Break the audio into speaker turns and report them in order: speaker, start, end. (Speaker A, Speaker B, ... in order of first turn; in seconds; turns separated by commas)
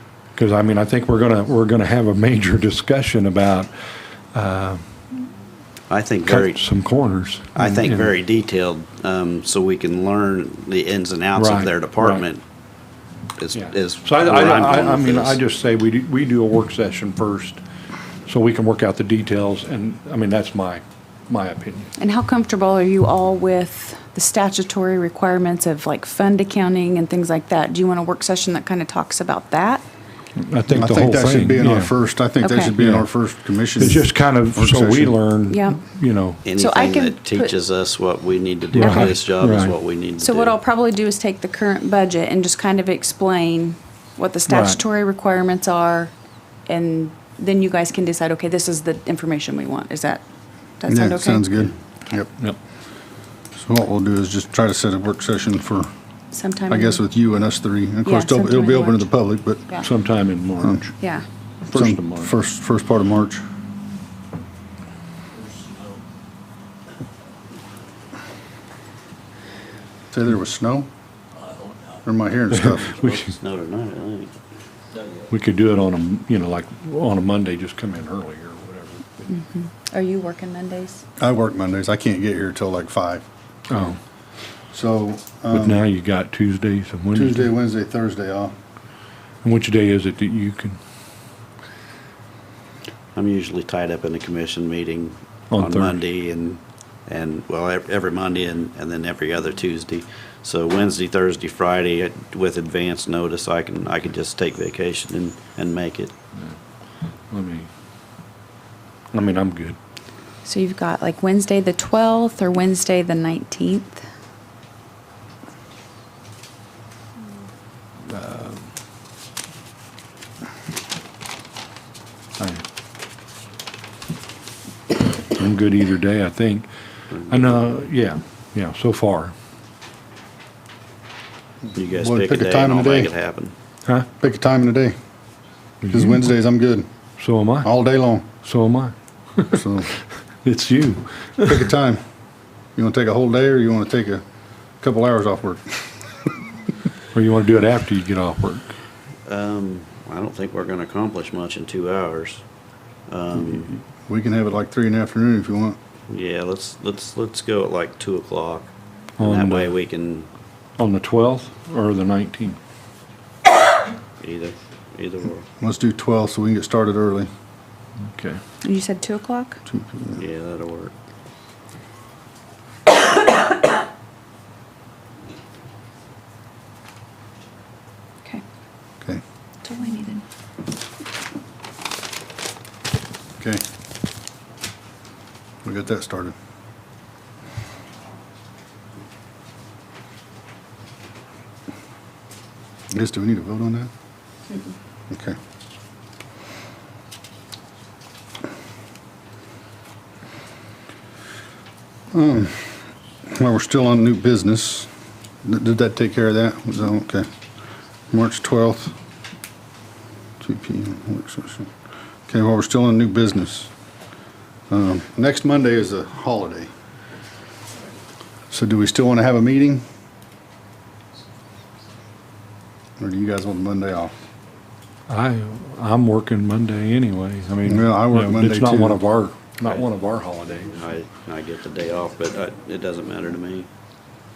Speaker A: 0.3-3.7, Speaker A: 4.3-4.9, Speaker B: 5.9-6.6, Speaker A: 6.2-8.1, Speaker B: 7.5-12.4, Speaker A: 11.3-12.2, Speaker B: 13.4-15.4, Speaker A: 13.5-17.6, Speaker A: 18.3-21.9, Speaker C: 22.0-29.9, Speaker A: 30.4-31.9, Speaker D: 30.7-35.2, Speaker C: 32.4-32.7, Speaker A: 32.8-33.1, Speaker A: 33.8-36.4, Speaker C: 35.5-35.8, Speaker B: 36.5-40.6, Speaker C: 36.5-37.5, Speaker A: 38.7-39.8, Speaker C: 38.8-39.1, Speaker C: 40.2-46.1, Speaker A: 44.5-44.8, Speaker C: 46.7-50.2, Speaker C: 50.8-51.7, Speaker D: 50.9-52.3, Speaker D: 53.6-55.9, Speaker C: 56.3-57.0, Speaker D: 56.7-59.7, Speaker C: 58.0-59.1, Speaker A: 59.8-60.9, Speaker C: 61.0-61.3, Speaker A: 61.7-62.3, Speaker D: 61.7-63.4, Speaker D: 70.1-70.9, Speaker D: 72.0-73.0, Speaker A: 72.5-73.3, Speaker B: 73.0-74.3, Speaker A: 75.3-79.2, Speaker C: 79.3-81.0, Speaker D: 81.2-83.2, Speaker A: 83.7-84.0, Speaker D: 84.7-85.8, Speaker A: 85.5-87.5, Speaker D: 87.1-88.5, Speaker A: 89.4-90.8, Speaker B: 93.2-106.1, Speaker A: 95.5-96.0, Speaker A: 107.3-107.7, Speaker A: 109.1-109.8, Speaker C: 110.5-114.0, Speaker A: 118.1-118.6, Speaker A: 122.4-122.6, Speaker A: 125.2-126.7, Speaker A: 127.3-129.3, Speaker B: 131.8-133.5, Speaker D: 131.9-133.1, Speaker D: 134.2-134.9, Speaker A: 135.8-136.2, Speaker D: 135.9-136.9, Speaker A: 137.2-137.7, Speaker D: 137.6-138.3, Speaker A: 138.4-139.6, Speaker D: 139.5-139.9, Speaker A: 140.4-141.5, Speaker D: 141.5-142.0, Speaker D: 142.8-144.2, Speaker D: 144.8-145.8, Speaker A: 147.1-148.7, Speaker B: 149.3-152.4, Speaker B: 153.1-153.8, Speaker D: 154.1-155.8, Speaker B: 156.1-160.3, Speaker A: 159.2-159.7, Speaker A: 160.8-162.6, Speaker B: 164.2-165.5, Speaker D: 165.6-167.3, Speaker A: 168.1-168.4, Speaker C: 168.6-169.6, Speaker D: 169.7-170.2, Speaker B: 170.2-170.9, Speaker C: 179.6-180.2, Speaker D: 185.6-186.3, Speaker D: 192.9-193.9, Speaker D: 195.1-195.4, Speaker D: 202.1-204.9, Speaker D: 205.4-207.3, Speaker D: 208.1-208.9, Speaker D: 210.4-211.7, Speaker D: 212.3-213.7, Speaker D: 214.7-216.7, Speaker D: 218.5-219.8, Speaker D: 223.0-224.1, Speaker A: 225.1-230.8, Speaker D: 227.7-229.0, Speaker B: 230.7-233.7